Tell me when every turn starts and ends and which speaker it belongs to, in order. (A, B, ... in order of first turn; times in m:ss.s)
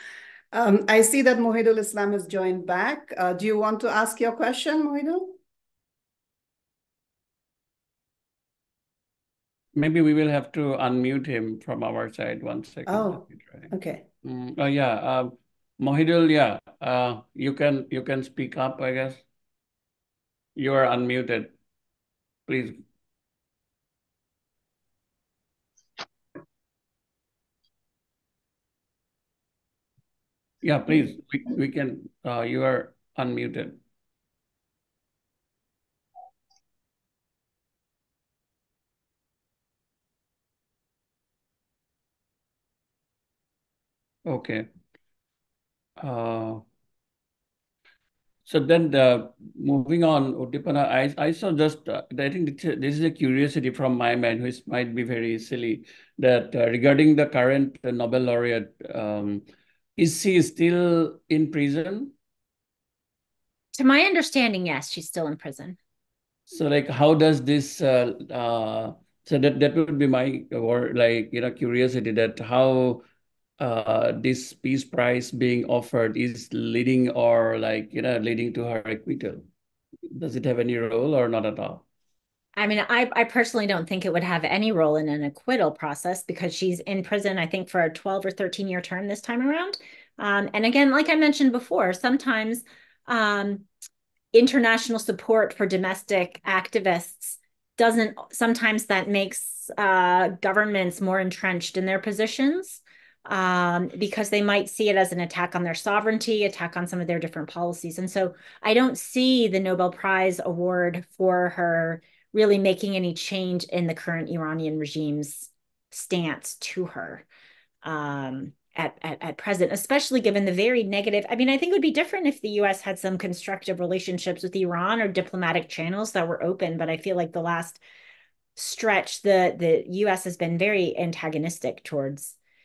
0:00.5-0:05.4 A
0:09.7-0:13.7 B
0:12.9-0:14.0 A
0:14.2-0:19.2 B
0:20.6-0:21.5 B
0:22.5-0:22.8 B
0:30.6-0:33.8 B
0:44.2-0:44.7 B
0:46.0-0:46.6 B
0:48.4-0:59.4 B
1:00.0-1:02.1 B
1:03.7-1:05.8 C
1:06.5-1:13.0 B
1:13.6-1:19.4 B
1:20.1-1:21.8 B
1:22.6-1:33.7 C
1:34.3-1:57.2 C
1:57.8-2:07.8 C
2:08.6-2:12.4 C